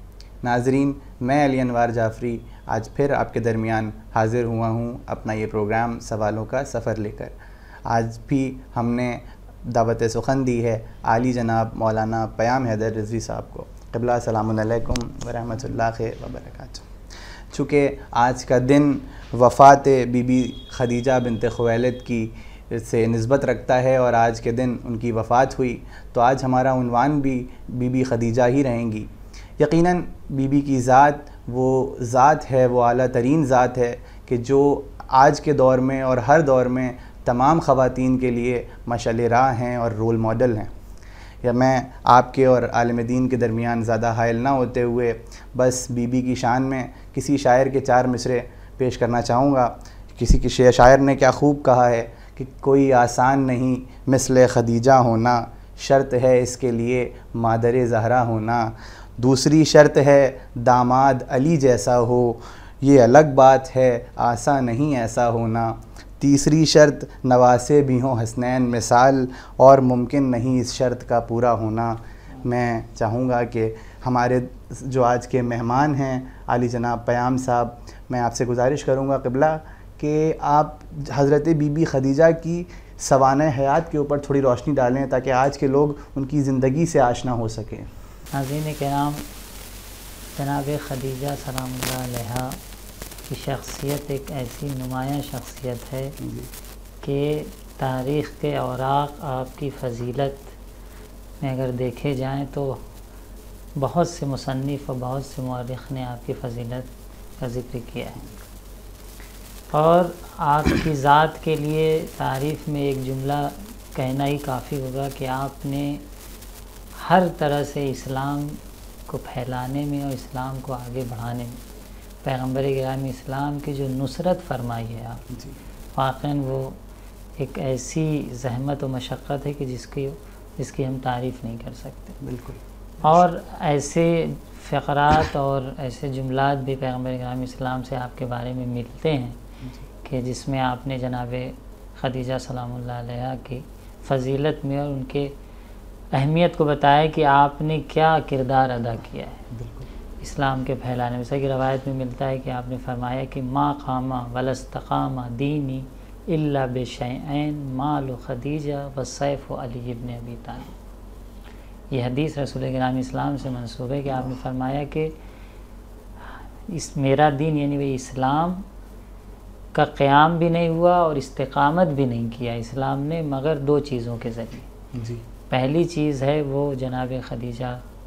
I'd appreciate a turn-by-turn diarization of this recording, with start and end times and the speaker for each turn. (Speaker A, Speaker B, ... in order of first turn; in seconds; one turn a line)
Speaker A: 0.4-7.3
Speaker A: 7.8-16.9
Speaker A: 17.5-40.7
Speaker A: 41.4-87.9
Speaker B: 88.3-89.2
Speaker B: 90.3-92.6
Speaker B: 93.3-96.2
Speaker A: 96.2-96.5
Speaker B: 97.0-100.5
Speaker B: 101.4-102.8
Speaker B: 103.8-106.9
Speaker B: 107.4-108.3
Speaker B: 109.7-116.0
Speaker B: 117.0-121.6
Speaker B: 122.2-125.2
Speaker A: 125.3-125.6
Speaker B: 126.0-126.8
Speaker B: 127.4-132.2
Speaker A: 132.2-133.2
Speaker B: 133.0-139.4
Speaker B: 140.0-145.3
Speaker B: 146.1-149.4
Speaker A: 149.5-149.9
Speaker B: 150.2-160.7
Speaker B: 161.9-165.1
Speaker B: 166.7-168.6
Speaker B: 169.7-174.7
Speaker A: 174.9-175.2
Speaker B: 175.5-177.8